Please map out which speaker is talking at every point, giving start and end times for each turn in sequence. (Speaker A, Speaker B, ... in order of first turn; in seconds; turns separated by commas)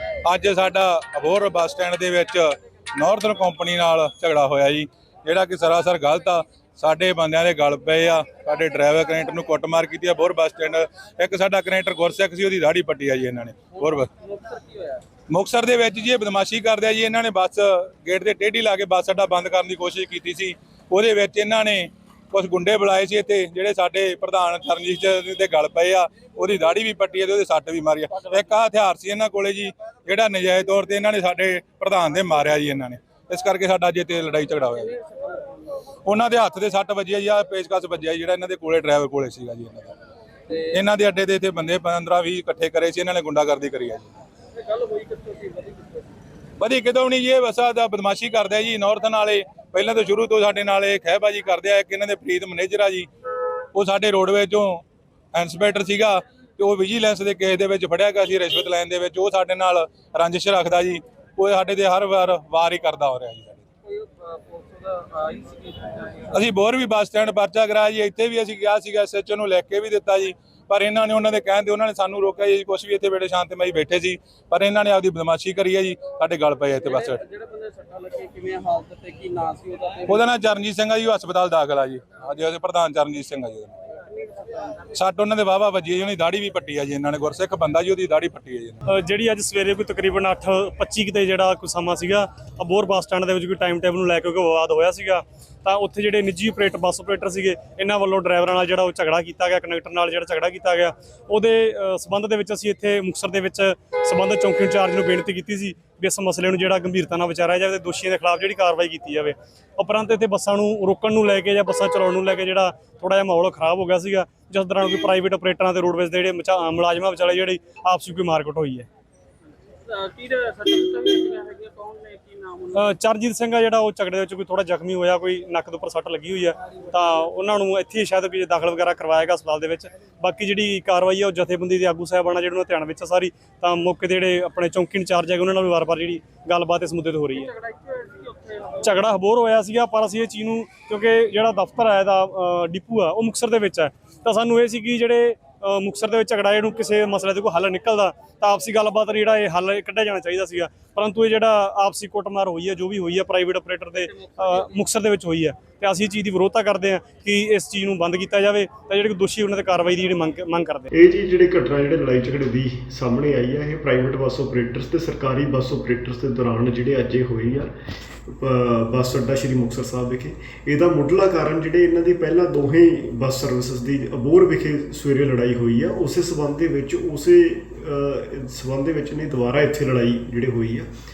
Speaker A: 0.2-14.1, Speaker B: 13.8-15.0, Speaker A: 15.3-35.0, Speaker B: 35.1-35.6, Speaker A: 36.0-40.0, Speaker A: 40.6-44.1, Speaker B: 44.6-46.2, Speaker A: 46.6-53.1, Speaker A: 53.7-63.6, Speaker B: 63.9-66.3, Speaker A: 66.3-77.2, Speaker B: 76.9-80.1, Speaker A: 80.0-83.8, Speaker A: 84.9-88.8, Speaker C: 88.9-118.9, Speaker B: 119.8-122.8, Speaker C: 122.7-137.6, Speaker B: 137.6-138.8, Speaker C: 138.8-160.9, Speaker B: 154.1-154.7, Speaker D: 160.9-167.7, Speaker D: 168.3-180.9